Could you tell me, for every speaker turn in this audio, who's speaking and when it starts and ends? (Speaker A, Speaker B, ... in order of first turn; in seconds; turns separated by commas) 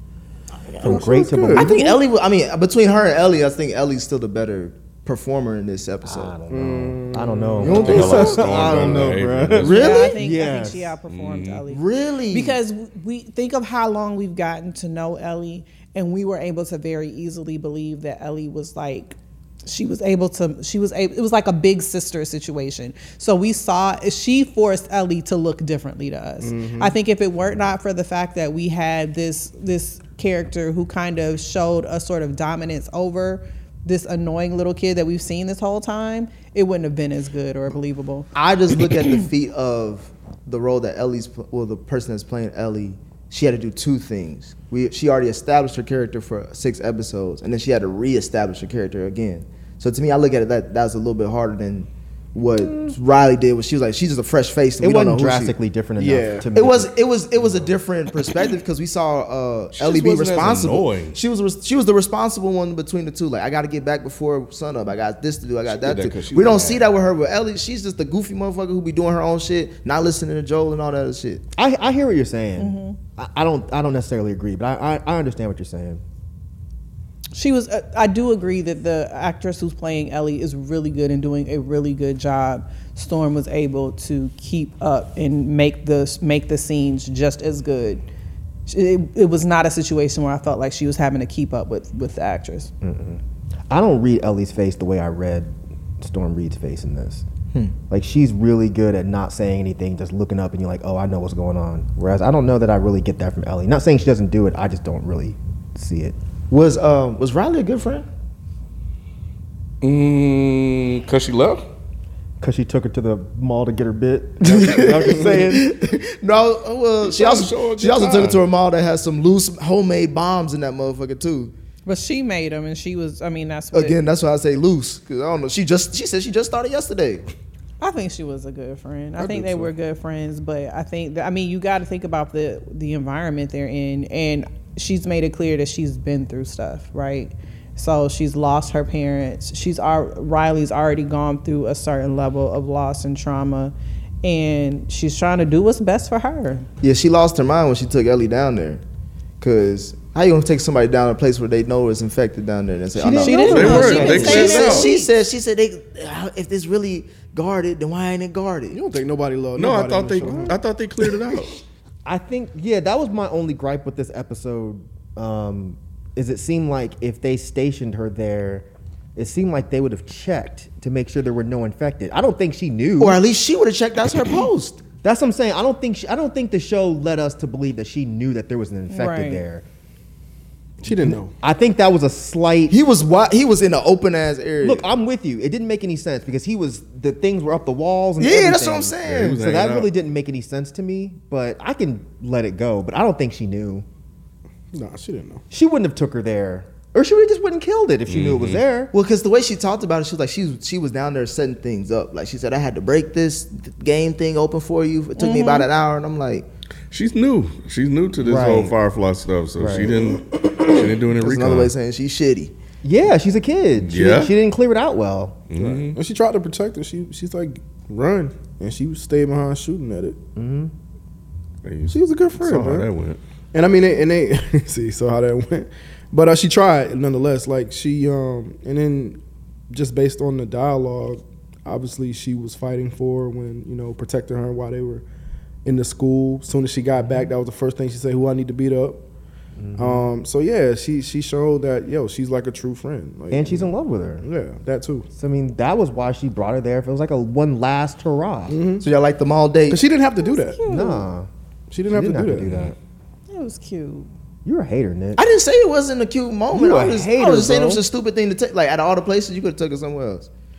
Speaker A: 0.8-1.7, Speaker B: 0.8-2.0, Speaker C: 1.5-6.3, Speaker B: 6.0-10.9, Speaker A: 6.5-8.4, Speaker C: 7.6-10.2, Speaker D: 7.7-9.9, Speaker E: 9.6-38.3, Speaker D: 11.1-11.6, Speaker C: 11.7-12.6, Speaker A: 26.4-26.9, Speaker C: 38.3-55.5, Speaker B: 52.7-52.9, Speaker B: 54.8-56.9, Speaker A: 56.0-56.5, Speaker C: 56.5-71.4, Speaker D: 59.8-61.2, Speaker D: 65.7-66.8, Speaker B: 71.5-76.0, Speaker E: 72.6-73.0, Speaker E: 77.3-88.0, Speaker E: 88.7-92.7, Speaker B: 92.8-97.2, Speaker B: 97.9-106.2, Speaker C: 106.5-108.0, Speaker D: 109.8-111.7, Speaker B: 112.4-115.7, Speaker C: 114.4-121.5, Speaker D: 117.0-118.4, Speaker E: 121.8-124.0, Speaker C: 123.7-127.3, Speaker E: 127.8-146.7, Speaker A: 129.2-129.6, Speaker C: 146.8-148.8, Speaker C: 149.4-158.8, Speaker B: 152.9-154.7, Speaker E: 153.2-155.1, Speaker D: 153.5-154.9, Speaker A: 158.7-160.6, Speaker D: 159.6-161.6, Speaker B: 162.0-173.2, Speaker C: 173.0-174.8, Speaker B: 175.0-179.6, Speaker E: 178.9-179.4, Speaker A: 180.8-181.3, Speaker B: 180.9-182.7, Speaker C: 182.7-184.8, Speaker B: 184.6-193.8, Speaker C: 188.2-189.4, Speaker D: 189.1-189.9, Speaker A: 194.7-195.4, Speaker B: 195.5-198.9, Speaker D: 198.1-198.6, Speaker C: 198.9-206.4, Speaker E: 205.2-205.7, Speaker D: 206.9-211.7, Speaker B: 208.2-208.7, Speaker B: 209.6-210.1, Speaker C: 211.1-212.5, Speaker B: 212.8-215.5, Speaker D: 213.8-214.3, Speaker D: 215.5-216.0, Speaker A: 215.9-220.2, Speaker B: 220.3-220.7, Speaker D: 221.6-223.2, Speaker A: 221.9-222.9, Speaker A: 223.5-235.0, Speaker A: 235.6-239.0, Speaker B: 237.0-237.3, Speaker B: 239.6-240.1, Speaker A: 239.8-243.7, Speaker B: 243.3-244.2, Speaker A: 244.2-245.1, Speaker B: 245.1-248.6, Speaker A: 248.5-248.8, Speaker C: 248.8-249.8, Speaker A: 249.7-250.6, Speaker E: 250.2-251.1, Speaker B: 250.7-251.3, Speaker A: 251.7-252.7, Speaker B: 251.9-252.8, Speaker E: 253.3-254.1, Speaker B: 254.4-255.2, Speaker C: 255.2-260.3, Speaker B: 256.5-257.8